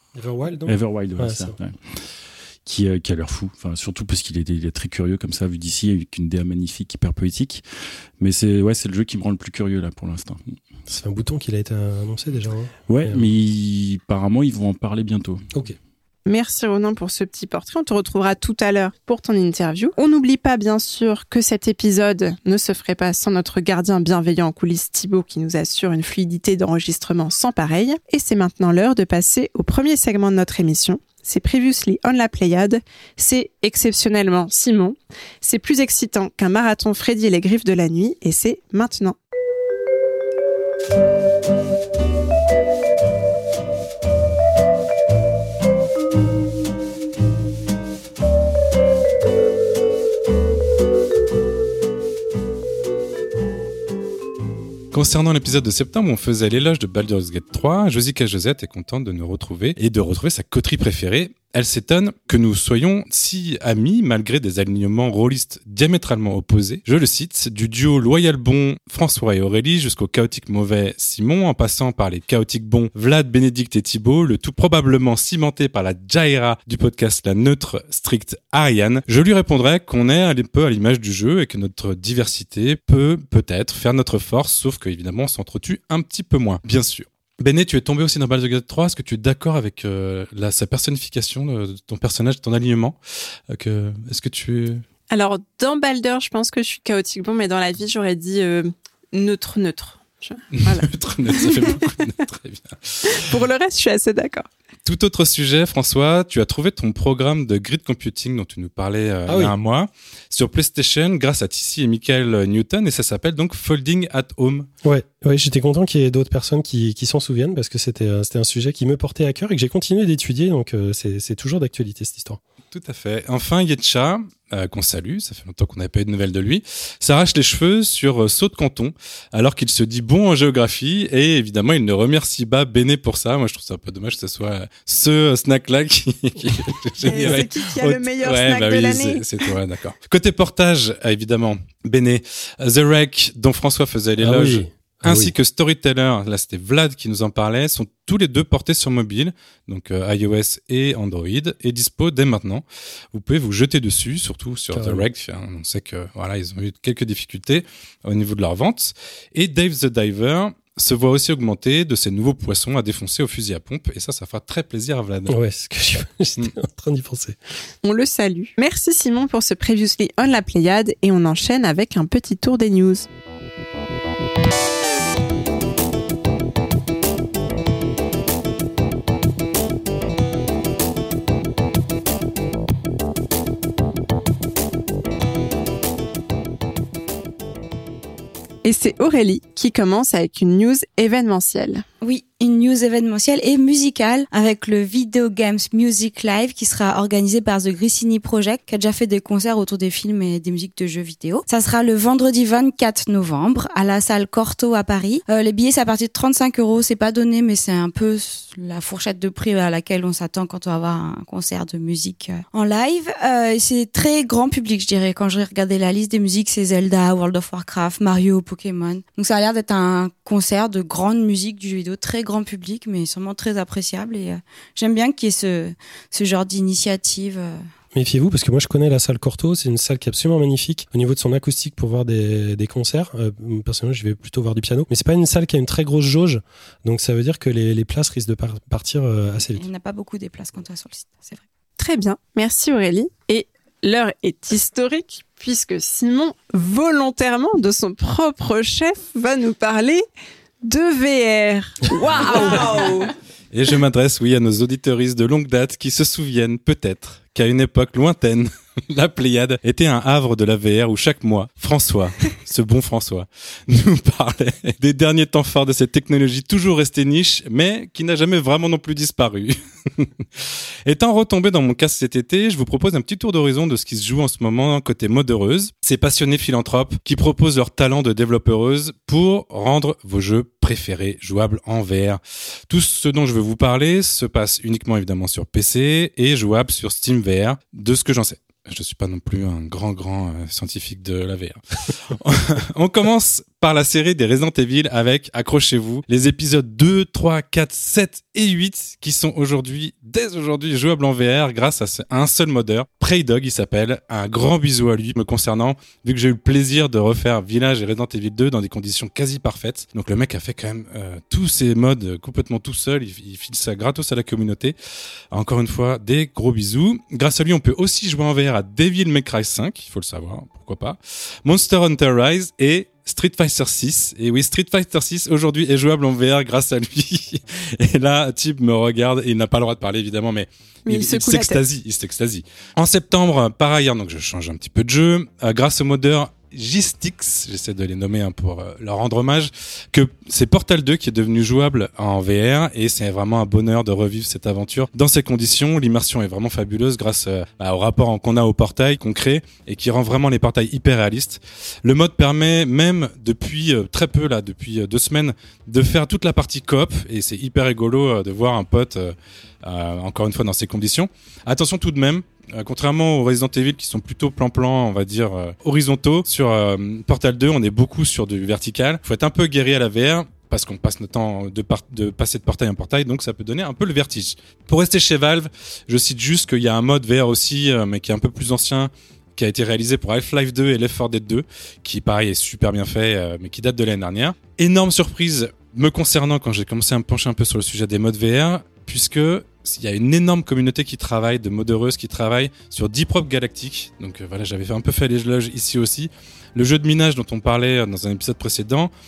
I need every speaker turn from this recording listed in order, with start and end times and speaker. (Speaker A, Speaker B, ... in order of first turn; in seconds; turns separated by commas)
Speaker A: 0.1-1.6, Speaker B: 0.7-2.1, Speaker B: 2.6-7.6, Speaker B: 8.2-10.4, Speaker A: 10.9-13.3, Speaker B: 12.9-15.5, Speaker C: 16.2-39.2, Speaker D: 54.9-93.0, Speaker D: 93.5-94.8, Speaker C: 95.1-101.6, Speaker D: 100.5-103.3, Speaker C: 103.1-104.5, Speaker D: 104.8-114.7, Speaker A: 109.3-109.5, Speaker A: 114.8-122.4, Speaker D: 122.7-165.3, Speaker C: 137.0-139.5, Speaker A: 144.2-145.3, Speaker A: 154.7-155.0, Speaker A: 165.3-167.4, Speaker C: 167.8-173.1, Speaker C: 188.6-191.8, Speaker E: 192.0-227.7, Speaker A: 227.9-239.7, Speaker E: 239.5-241.4, Speaker C: 241.8-250.1, Speaker C: 250.6-253.1, Speaker D: 253.5-314.7, Speaker D: 315.3-398.9, Speaker C: 330.9-331.6